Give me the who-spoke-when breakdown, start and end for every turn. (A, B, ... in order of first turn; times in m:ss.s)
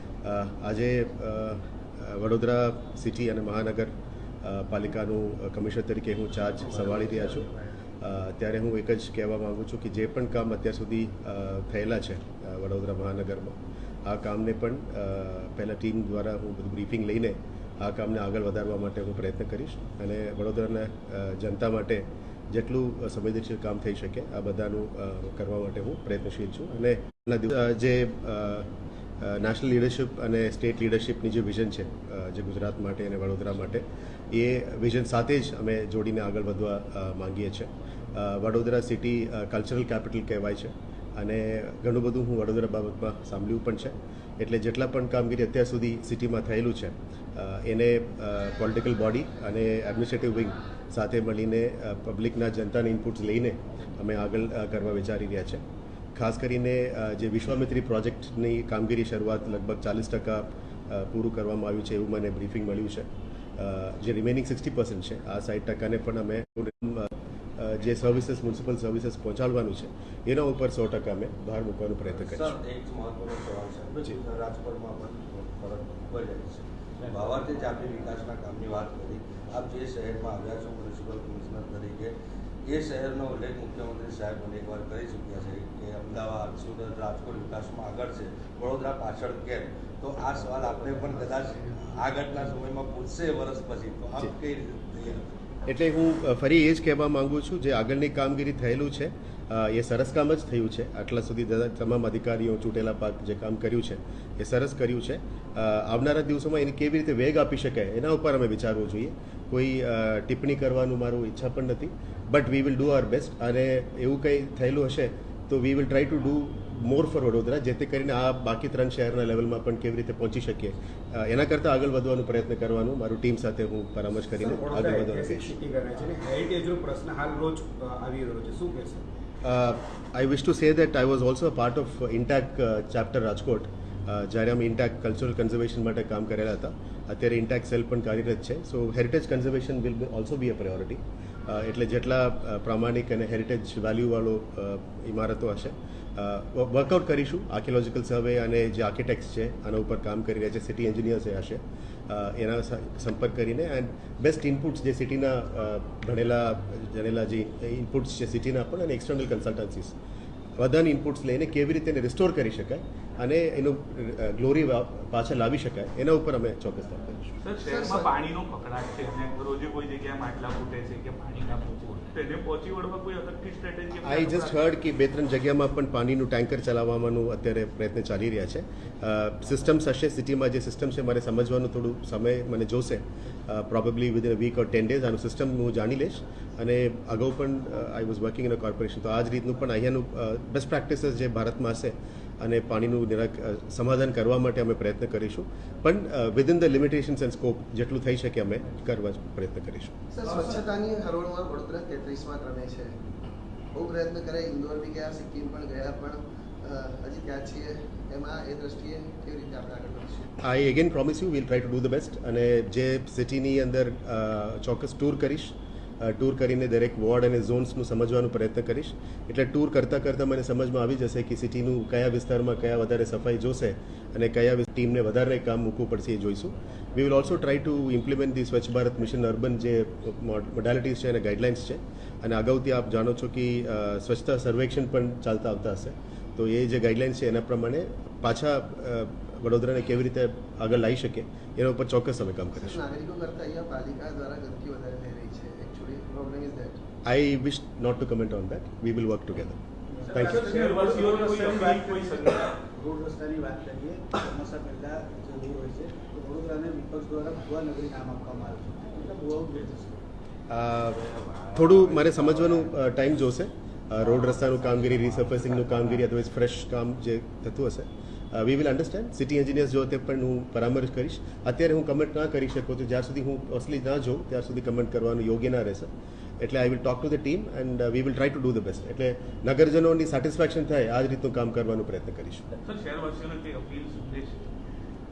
0:00.2-0:07.5 A
0:06.6-0:07.5 B
0:08.0-0:28.7 A
0:29.2-0:55.6 A
0:56.2-1:12.6 A
1:12.1-1:35.2 B
1:30.6-1:31.5 C
1:35.6-2:05.5 A
2:04.3-2:09.0 D
2:09.4-2:40.0 A
2:40.6-2:47.4 A
2:47.4-2:54.6 E
2:47.6-2:48.1 C
2:54.0-3:19.9 A
3:20.1-3:23.0 C
3:23.7-3:30.3 C
3:30.4-4:02.8 A
4:02.5-4:06.8 C
4:07.0-4:09.6 A
4:09.9-4:20.0 F
4:10.0-4:12.6 E
4:10.1-4:10.5 A
4:20.5-4:21.0 A
4:20.9-4:22.9 B
4:21.5-4:42.4 A
4:24.3-4:26.0 B
4:42.6-4:44.4 E